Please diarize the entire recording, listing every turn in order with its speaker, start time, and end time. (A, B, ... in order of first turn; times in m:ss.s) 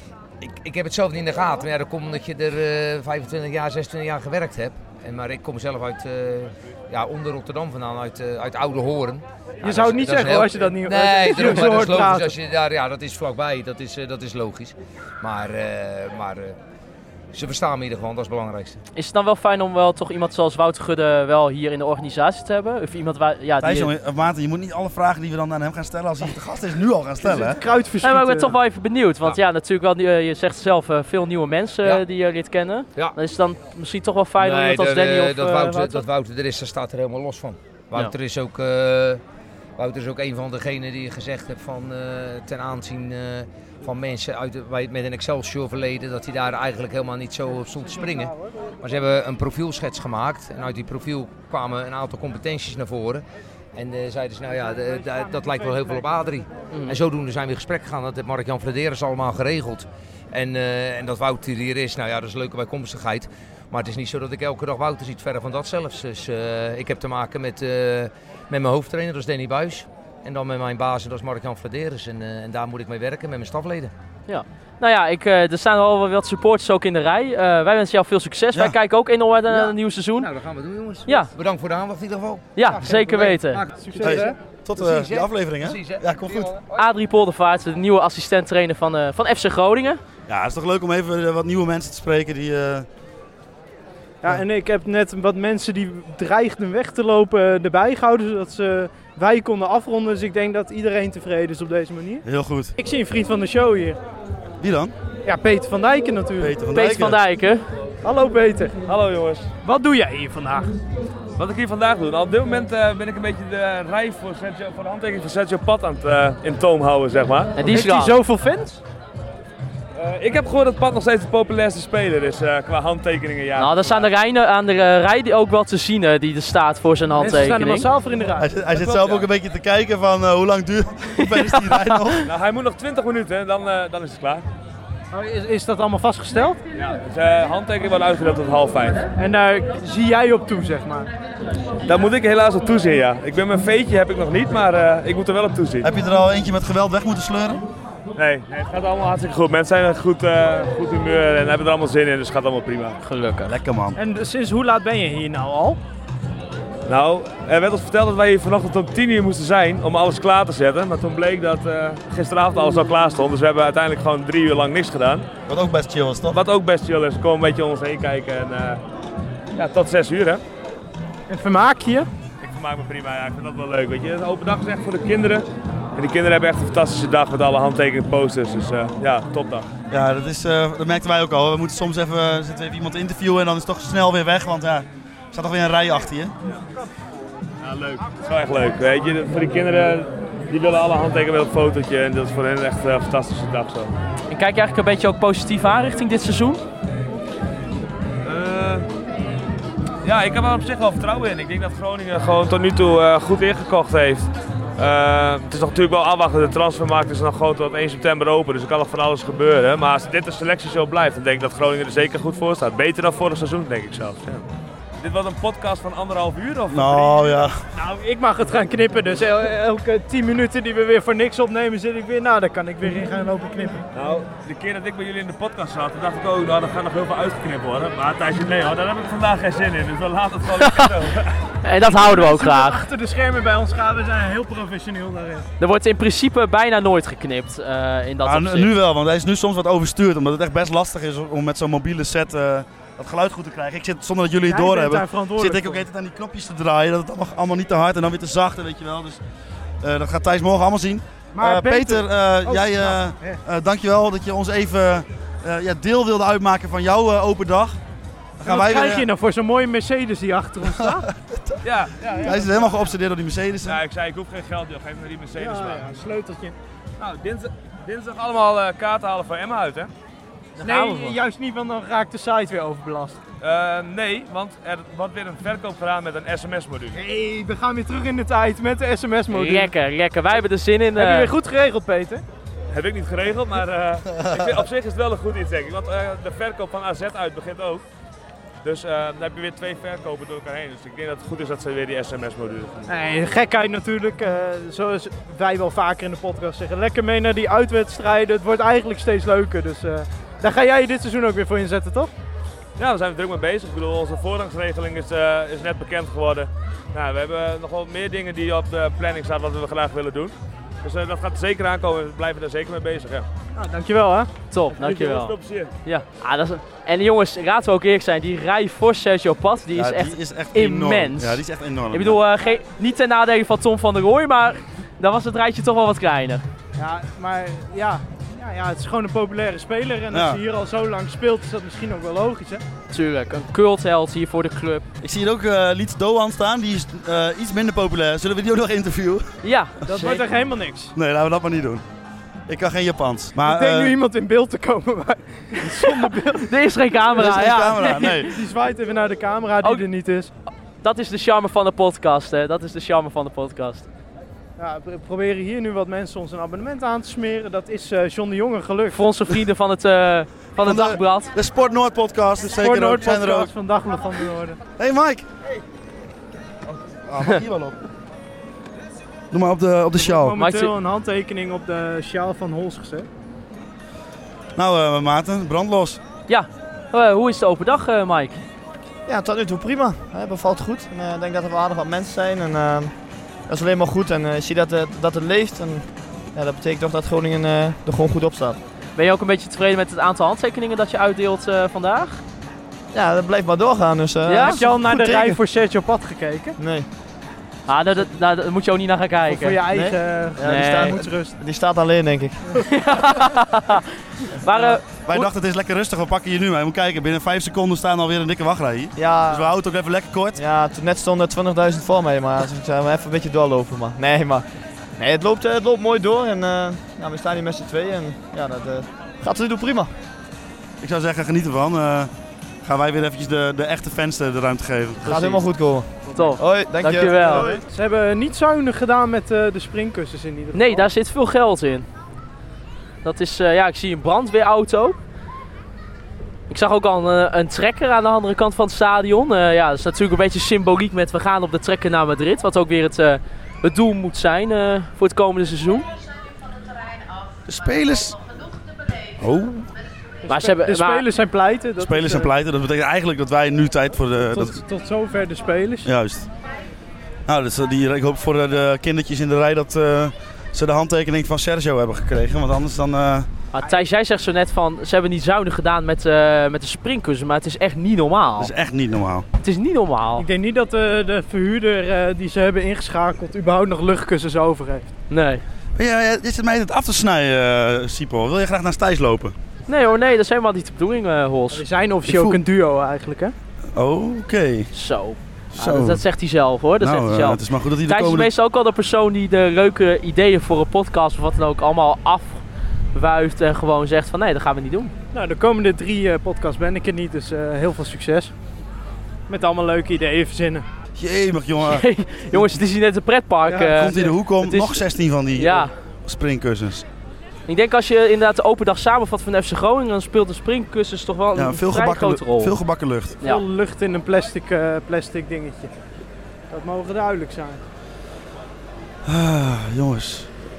0:00.4-0:16.6 A
0:09.6-0:12.4 B
0:11.4-0:11.8 C
0:17.3-0:18.8 A
0:19.0-0:23.9 C
0:23.6-0:27.6 D
0:27.2-0:28.5 B
0:28.0-0:36.0 C
0:34.4-0:39.2 A
0:39.8-0:53.2 A
0:53.8-1:13.9 A
0:54.7-0:55.9 B
0:56.7-0:57.0 C
1:14.3-1:20.3 C
1:19.5-1:26.9 A
1:21.1-1:21.3 C
1:22.6-1:23.6 C
1:22.7-1:24.4 B
1:24.0-1:26.5 D
1:26.8-1:30.0 C
1:30.3-1:32.9 D
1:34.2-1:42.2 B
1:42.2-1:42.7 D
1:42.8-1:44.0 B
1:44.6-1:44.9 D
1:45.2-1:46.6 B
1:46.4-1:47.2 D
1:46.7-1:47.6 C
1:48.0-1:48.8 B
1:48.9-1:49.5 E
1:49.6-1:50.7 B
1:51.4-1:57.6 E
1:57.6-1:58.1 C
1:57.7-1:58.8 B
2:00.0-2:04.1 E
2:03.6-2:07.9 C
2:07.2-2:08.6 B
2:08.4-2:12.3 D
2:08.7-2:09.3 E
2:11.2-2:11.7 C
2:12.2-2:14.4 E
2:15.1-2:16.6 B
2:16.7-2:19.1 E
2:19.2-2:21.1 B
2:21.8-2:25.9 E
2:25.8-2:27.6 D
2:28.2-2:33.0 E
2:33.0-2:33.5 C
2:33.5-2:34.0 D
2:34.0-2:35.8 B
2:36.9-2:45.3 E
2:45.5-2:46.4 D
2:46.3-2:48.8 E
2:49.5-2:50.4 E
2:51.3-2:52.1 B
2:52.4-2:59.7 E
2:59.9-3:06.3 D
3:07.6-3:13.9 E
3:14.3-3:16.6 C
3:18.2-3:18.9 E
3:20.0-3:34.5 E
3:35.0-3:37.5 E
3:36.7-3:37.6 D
3:37.8-3:43.8 B
3:43.9-3:51.4 E
3:51.6-3:52.8 C
3:51.8-3:55.5 B
3:55.6-3:58.7 C
3:58.2-4:09.2 D
4:04.5-4:05.8 B
4:09.8-4:17.8 D
4:11.4-4:13.4 B
4:18.4-4:19.1 D
4:18.4-4:21.1 B
4:20.6-4:21.6 D
4:21.6-4:22.8 E
4:22.2-4:23.8 D
4:23.6-4:25.9 E
4:25.4-4:26.6 B
4:27.0-4:29.9 E
4:30.6-4:31.2 C
4:30.6-4:33.2 B
4:33.4-4:37.0 E
4:36.9-4:39.7 B
4:39.3-4:41.3 C
4:41.0-4:42.2 B
4:42.7-4:47.8 E
4:48.6-4:52.9 E
4:52.9-5:02.1 B
5:02.8-5:13.3 E
5:13.6-5:14.3 B
5:14.5-5:15.3 C
5:14.8-5:15.7 E
5:15.8-5:26.4 C
5:19.7-5:22.2 D
5:26.8-5:32.6 B
5:30.1-5:30.4 D
5:32.9-5:34.8 C
5:35.0-5:39.3 D
5:39.4-5:40.2 C
5:39.9-5:40.9 B
5:40.9-5:41.8 D
5:42.5-5:44.0 D
5:43.4-5:46.5 B
5:46.4-5:48.3 C
5:47.2-5:48.3 D
5:48.2-5:50.3 B
5:50.8-5:53.9 C
5:54.6-5:59.0 B
5:58.9-6:01.3 C
6:00.6-6:03.5 D
6:02.5-6:04.6 B
6:04.8-6:05.3 D
6:07.0-6:07.8 D
6:09.3-6:10.4 D
6:10.0-6:13.1 B
6:10.4-6:10.7 C
6:14.6-6:16.0 D
6:16.3-6:18.4 C
6:19.1-6:22.9 F
6:23.5-6:28.6 F
6:29.0-6:32.2 C
6:32.9-6:35.4 F
6:34.3-6:34.6 C
6:34.4-6:36.6 B
6:36.6-6:36.9 F
6:37.7-6:39.6 C
6:39.3-6:41.4 B
6:39.7-6:42.4 F
6:40.4-6:41.0 C
6:42.7-6:45.3 C
6:45.0-6:50.4 D
6:49.0-6:49.5 F
6:50.4-6:54.4 F
6:55.0-6:59.9 F
7:00.8-7:02.1 D
7:02.6-7:05.4 D
7:05.0-7:07.6 F
7:06.1-7:07.5 C
7:07.2-7:10.9 B
7:10.5-7:11.9 C
7:13.0-7:15.0 C
7:16.5-7:25.9 C
7:27.5-7:28.2 D
7:29.2-7:29.7 D
7:30.2-7:32.3 B
7:30.3-7:31.1 C
7:31.8-7:34.6 D
7:34.3-7:35.9 B
7:35.8-7:36.3 D
7:37.3-7:43.3 D
7:43.5-7:48.5 C
7:48.4-7:49.2 D
7:49.4-7:50.3 C
7:50.2-7:54.9 B
7:55.1-7:55.4 C
7:55.8-7:59.4 D
7:59.7-8:01.6 C
8:01.5-8:03.3 B
8:02.1-8:02.4 D
8:03.8-8:04.7 D
8:04.7-8:12.4 C
8:05.5-8:06.0 D
8:06.8-8:08.3 D
8:12.9-8:14.9 C
8:15.1-8:18.3 B
8:19.3-8:20.7 B
8:21.0-8:22.6 D
8:21.6-8:24.8 C
8:23.5-8:24.1 B
8:23.7-8:26.8 D
8:25.4-8:25.7 C
8:27.5-8:32.6 C
8:31.4-8:33.2 D
8:33.2-8:35.7 B
8:36.5-8:37.6 B
8:39.0-8:40.3 D